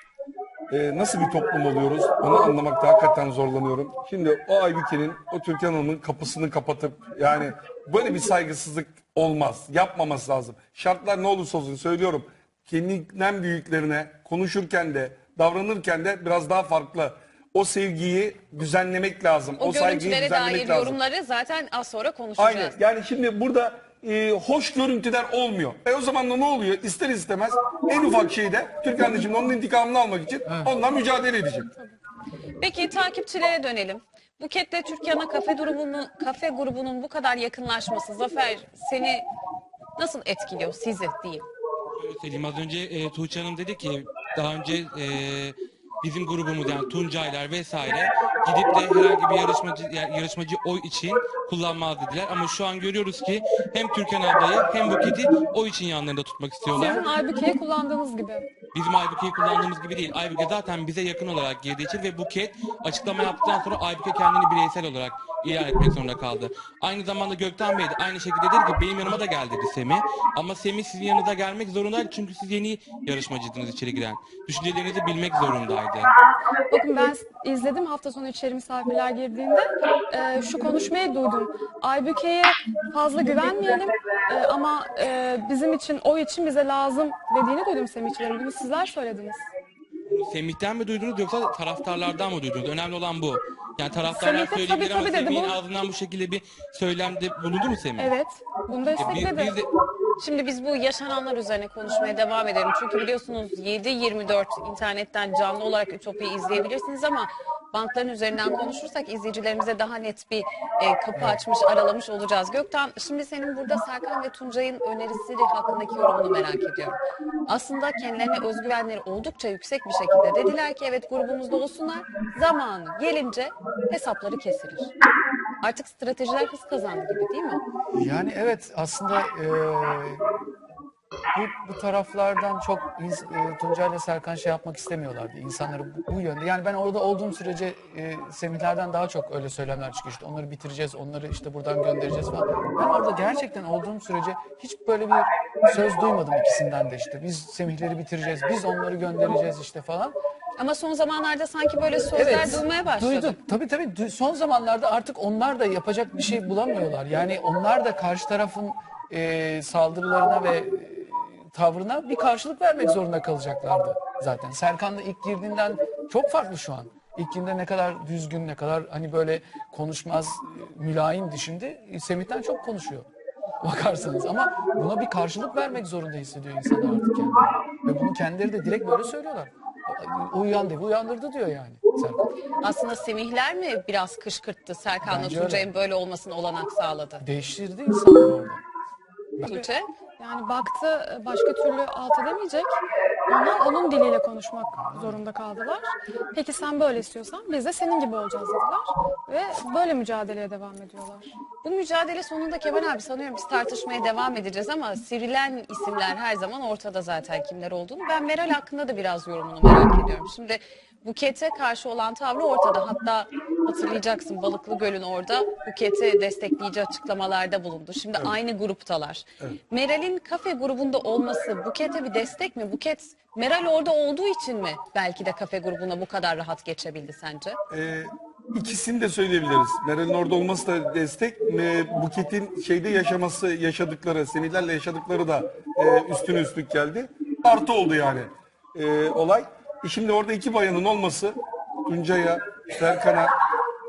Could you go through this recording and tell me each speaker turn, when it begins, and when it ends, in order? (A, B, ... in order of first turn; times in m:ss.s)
0:00.7-0:21.0 A
0:19.6-0:22.8 B
0:22.4-0:31.7 A
0:30.4-0:30.7 C
0:32.6-0:39.2 B
0:40.0-0:41.5 B
0:42.0-0:57.0 D
0:56.7-0:58.5 E
0:58.7-1:16.1 D
1:16.7-1:29.5 E
1:30.1-1:38.1 D
1:34.1-1:35.6 E
1:38.0-1:39.6 E
1:39.0-1:39.7 D
1:40.2-2:04.9 B
1:51.1-1:51.4 C
2:05.6-2:07.6 B
2:07.9-2:10.2 C
2:11.3-2:30.1 C
2:30.6-2:33.4 B
2:32.1-2:53.1 C
2:53.6-3:02.3 C
3:02.6-3:07.2 B
3:05.0-3:05.7 C
3:07.2-3:08.6 C
3:09.4-3:09.9 B
3:10.2-3:21.3 E
3:14.8-3:15.2 C
3:21.6-3:47.6 B
3:47.7-4:03.3 A